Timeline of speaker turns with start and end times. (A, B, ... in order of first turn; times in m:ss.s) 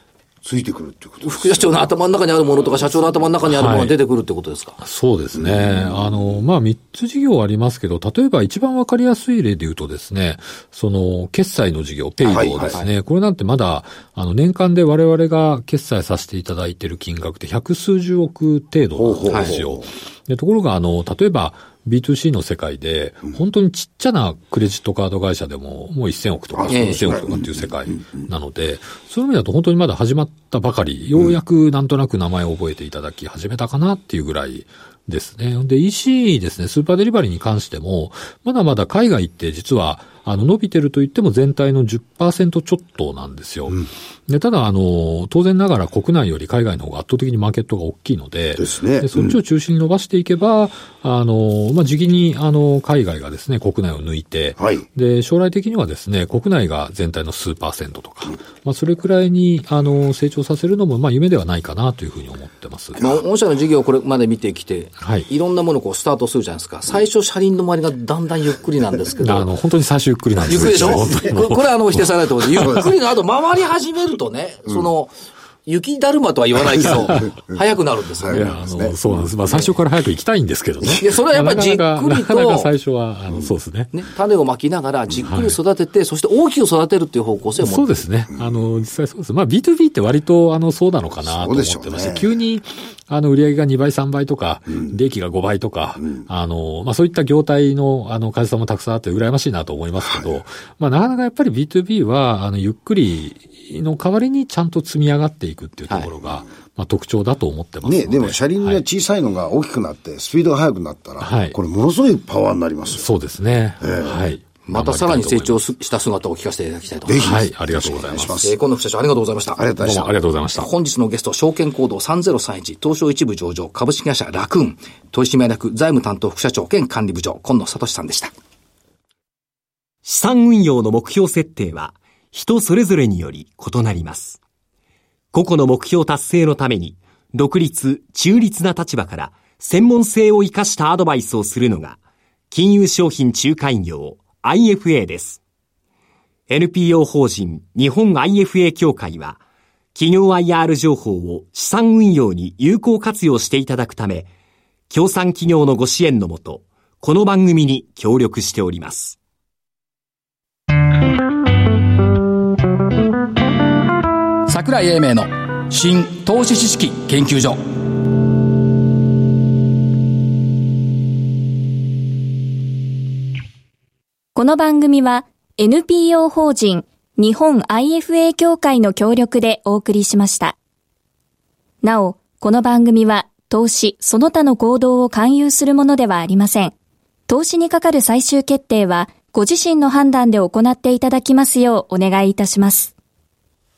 0:00.4-0:01.9 A
0:01.2-0:04.8 B
0:03.5-0:03.9 C
0:04.8-1:03.0 C
0:05.3-0:06.4 A
0:12.2-0:12.8 A
0:12.3-0:12.9 B
0:19.0-0:19.9 A
0:19.3-0:19.6 B
0:26.5-0:28.2 A
0:26.7-0:27.0 B
0:48.6-0:49.4 A
0:54.6-0:54.8 A
1:03.0-1:09.5 B
1:05.0-1:05.3 C
1:09.2-1:12.9 C
1:10.4-1:15.1 B
1:10.5-1:11.4 A
1:15.6-1:18.5 B
1:16.6-1:17.6 A
1:16.8-1:17.2 C
1:18.2-1:19.2 A
1:18.3-1:23.9 C
1:20.9-1:22.7 B
1:23.9-1:28.0 B
1:25.2-1:25.6 C
1:27.6-1:48.8 C
1:31.2-1:32.3 A
1:47.8-1:53.0 A
1:51.2-1:51.6 C
1:52.9-1:55.6 C
1:53.8-1:54.2 A
1:54.6-1:57.3 B
1:57.0-1:58.5 A
1:57.2-1:58.5 C
1:58.4-1:59.6 B
1:59.5-2:00.2 A
1:59.8-2:00.7 C
2:00.5-2:08.3 B
2:10.0-2:14.4 D
2:15.3-2:22.0 D
2:22.5-2:25.4 D
2:26.5-2:29.4 D
2:29.9-2:34.3 D
2:34.9-2:39.2 D
2:44.5-2:47.6 B
2:54.3-3:00.5 E
3:01.8-3:06.7 E
3:07.3-3:12.9 E